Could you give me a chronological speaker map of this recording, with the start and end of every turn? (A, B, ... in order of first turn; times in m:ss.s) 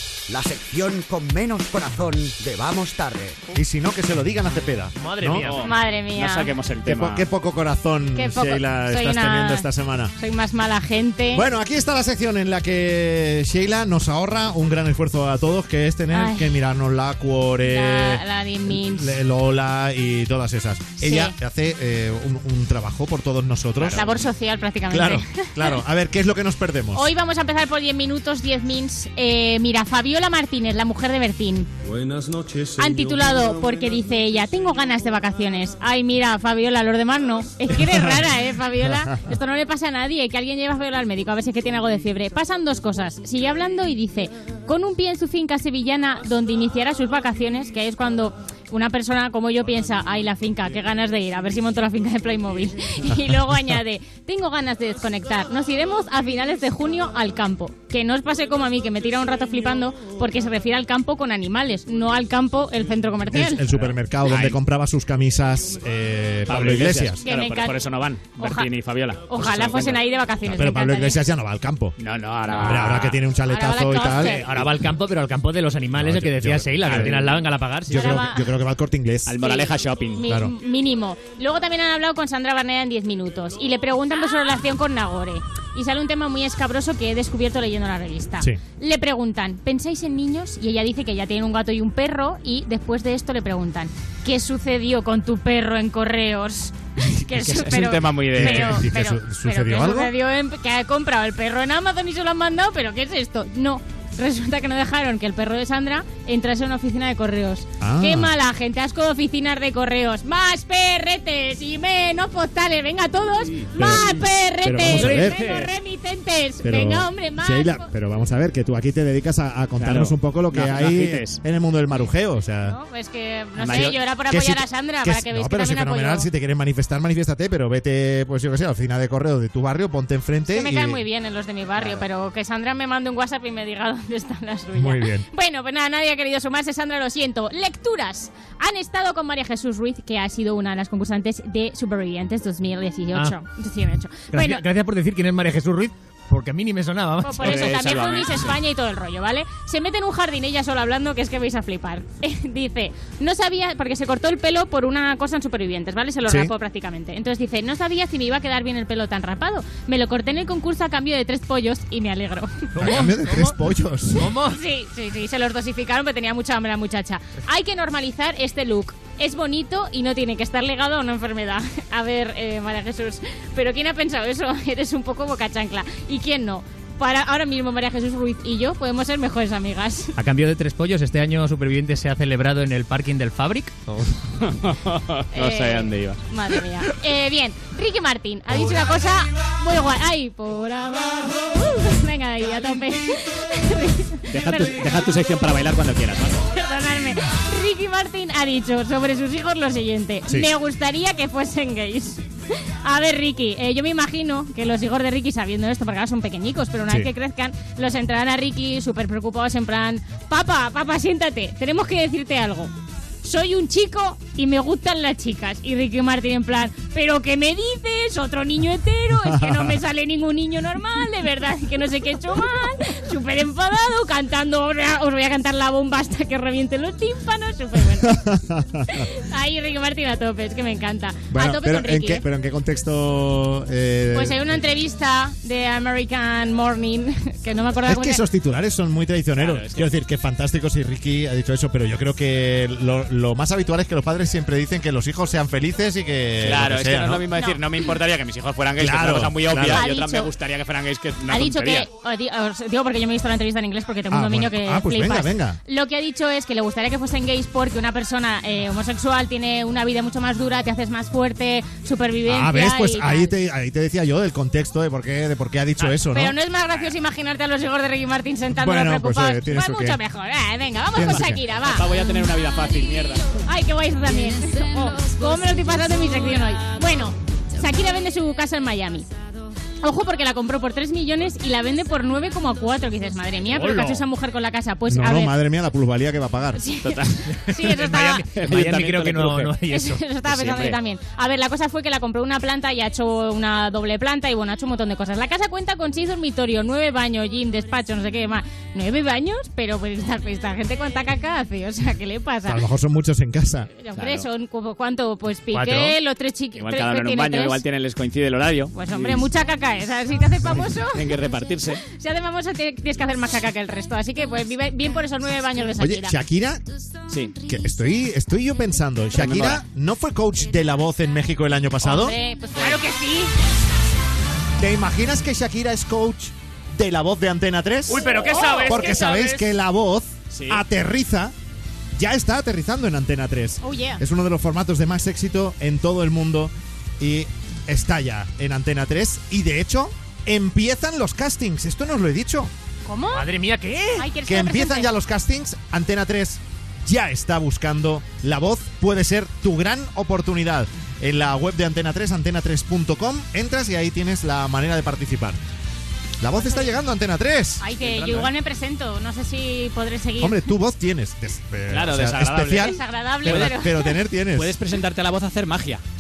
0:00.3-0:03.4 A
0:03.5-0:05.5 B
0:05.0-0:05.6 C
0:05.3-0:07.3 D
0:05.6-0:06.5 E
0:06.9-0:10.1 B
0:08.2-0:11.4 E
0:11.3-0:24.0 B
0:16.1-0:16.5 E
0:17.7-0:19.2 E
0:21.0-0:21.3 E
0:23.8-0:25.8 E
0:24.9-0:27.1 B
0:27.0-0:31.7 E
0:31.8-0:34.1 F
0:32.8-1:03.6 E
0:37.9-0:38.2 B
0:38.8-0:39.2 B
1:03.3-1:07.2 B
1:03.7-1:04.6 D
1:06.5-1:10.0 D
1:07.2-1:07.8 E
1:08.4-1:08.7 E
1:09.3-1:11.2 E
1:10.4-1:12.0 B
1:12.0-1:13.2 D
1:12.6-1:14.7 B
1:13.5-1:14.5 E
1:14.2-1:18.3 C
1:16.0-1:17.3 B
1:16.8-1:17.4 D
1:17.9-1:19.3 B
1:17.9-1:18.5 E
1:19.3-1:20.3 D
1:19.4-1:57.9 E
1:20.2-1:20.5 B
1:37.4-1:38.8 D
1:38.4-1:40.1 B
1:47.8-1:48.3 B
1:53.8-1:55.5 B
1:54.8-1:55.7 D
1:56.6-2:02.8 B
1:59.8-2:01.4 D
2:02.7-2:06.3 E
2:03.6-2:04.0 D
2:04.3-2:11.0 B
2:10.5-2:24.6 E
2:14.8-2:15.2 B
2:24.3-2:27.8 C
2:27.2-2:43.0 E
2:27.4-2:28.5 D
2:36.3-2:36.5 B
2:42.8-2:44.2 B
2:42.8-2:43.5 C
2:44.2-2:44.6 C
2:44.5-3:00.1 E
3:00.2-3:03.8 C
3:04.4-3:06.2 D
3:05.3-3:14.8 E
3:14.3-3:16.4 D
3:16.5-3:22.3 E
3:22.8-3:32.7 E
3:33.2-3:48.2 E
3:39.2-3:39.8 B
3:48.0-3:49.1 B
3:49.0-3:52.2 E
3:51.3-3:54.6 B
3:54.1-3:58.2 E
3:57.9-4:07.2 B
3:59.4-3:59.9 D
4:06.4-4:11.9 D
4:07.4-4:07.6 E
4:08.8-4:09.8 B
4:09.7-4:10.3 E
4:11.3-4:23.3 E
4:14.1-4:15.6 B
4:22.3-4:26.4 B
4:26.0-4:32.0 E
4:28.6-4:30.0 B
4:30.9-4:31.4 B
4:31.6-4:33.3 D
4:33.4-4:39.1 E
4:39.8-4:45.4 E
4:43.5-4:44.0 D
4:44.9-4:46.6 B
4:46.6-4:48.2 E
4:46.8-4:47.2 D
4:47.5-4:50.0 C
4:48.3-4:49.6 D
4:49.7-5:02.6 E
4:50.3-4:50.8 D
5:02.4-5:03.7 B
5:03.8-5:07.6 E
5:04.0-5:04.3 D
5:05.5-5:05.9 D
5:06.6-5:09.2 D
5:08.7-5:11.0 E
5:10.9-5:11.8 D
5:11.9-5:16.1 E
5:15.8-5:16.6 B
5:17.1-5:17.4 D
5:17.4-5:22.2 B
5:19.1-5:19.6 D
5:21.8-5:23.3 E
5:24.6-5:31.3 B
5:27.9-5:29.4 D
5:28.1-5:29.2 E
5:30.3-5:30.6 D
5:32.0-5:42.5 B
5:33.6-5:34.0 E
5:42.9-5:43.3 E
5:43.1-5:44.1 C
5:44.0-5:44.9 E
5:44.3-5:55.4 B
5:56.2-5:57.6 B
5:56.4-5:56.7 E
5:57.6-6:00.4 E
5:57.8-5:58.3 D
6:00.2-6:04.5 B
6:01.7-6:03.5 D
6:02.6-6:03.9 E
6:04.4-6:05.8 D